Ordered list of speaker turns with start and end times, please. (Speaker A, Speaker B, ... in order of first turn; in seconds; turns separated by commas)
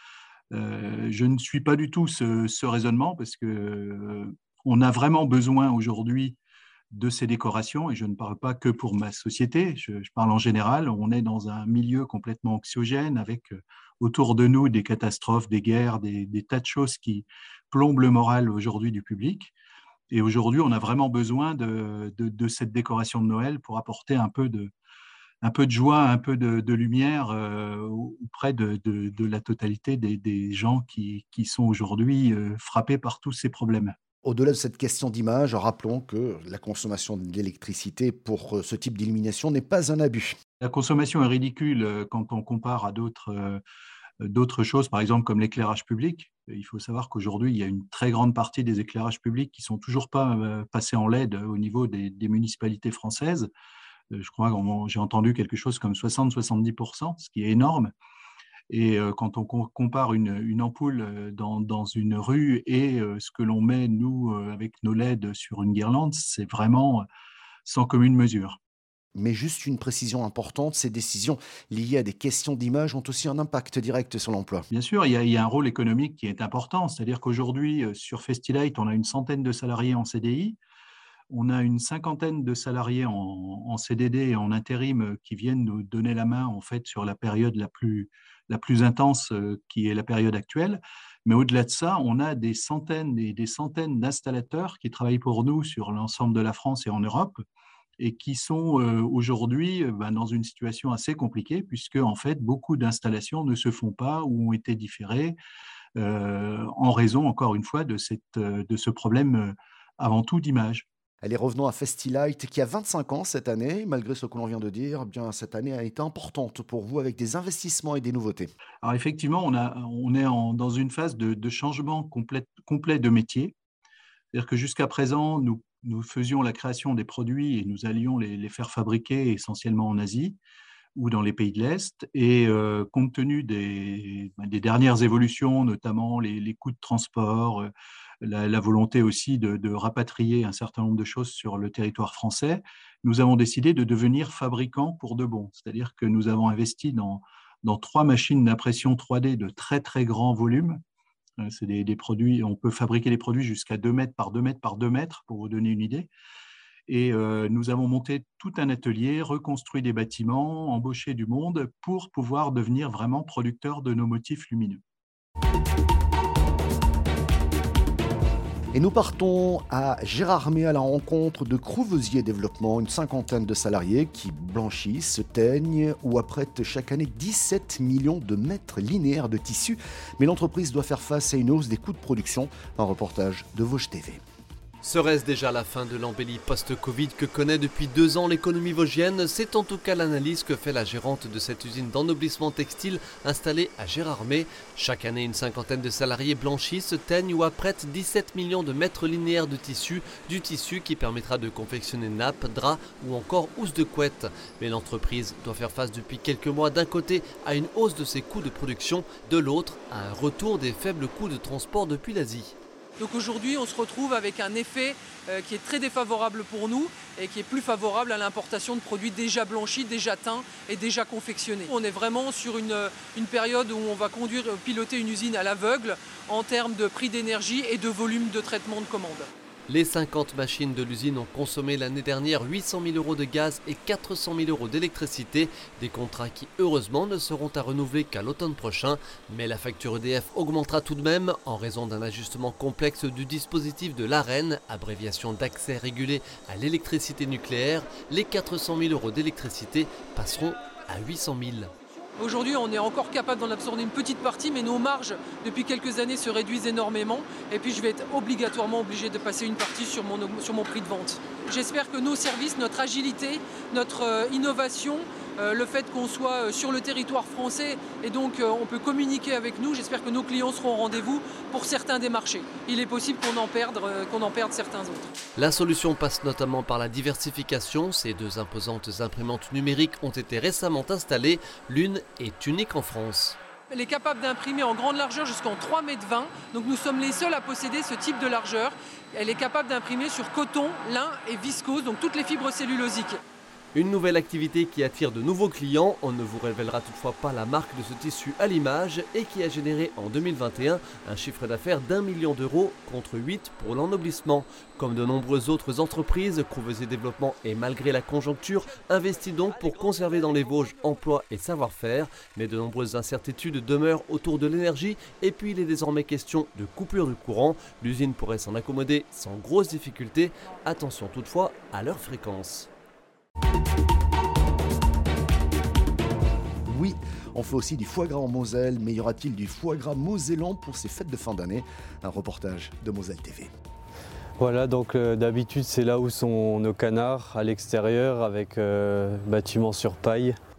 Speaker A: 0.5-6.4, Speaker A: 6.9-19.5, Speaker A: 20.1-24.7, Speaker A: 25.4-33.9, Speaker B: 34.2-40.4, Speaker A: 40.6-43.6, Speaker A: 44.2-53.5, Speaker A: 54.1-57.9, Speaker A: 58.7-67.0, Speaker A: 67.7-68.6, Speaker B: 69.1-74.7, Speaker A: 74.7-80.6, Speaker A: 81.3-97.4, Speaker A: 98.0-105.3, Speaker A: 106.0-110.8, Speaker B: 111.2-118.5, Speaker A: 118.8-123.5, Speaker A: 124.3-130.4, Speaker A: 130.9-137.7, Speaker A: 138.2-150.8, Speaker A: 151.4-156.1, Speaker A: 156.9-164.8, Speaker B: 168.7-184.2, Speaker C: 184.9-212.5, Speaker D: 213.0-229.3, Speaker C: 229.8-251.7, Speaker D: 252.2-275.1, Speaker C: 275.5-283.3, Speaker D: 283.7-293.2, Speaker C: 293.8-322.5, Speaker B: 326.7-333.5, Speaker E: 334.4-340.4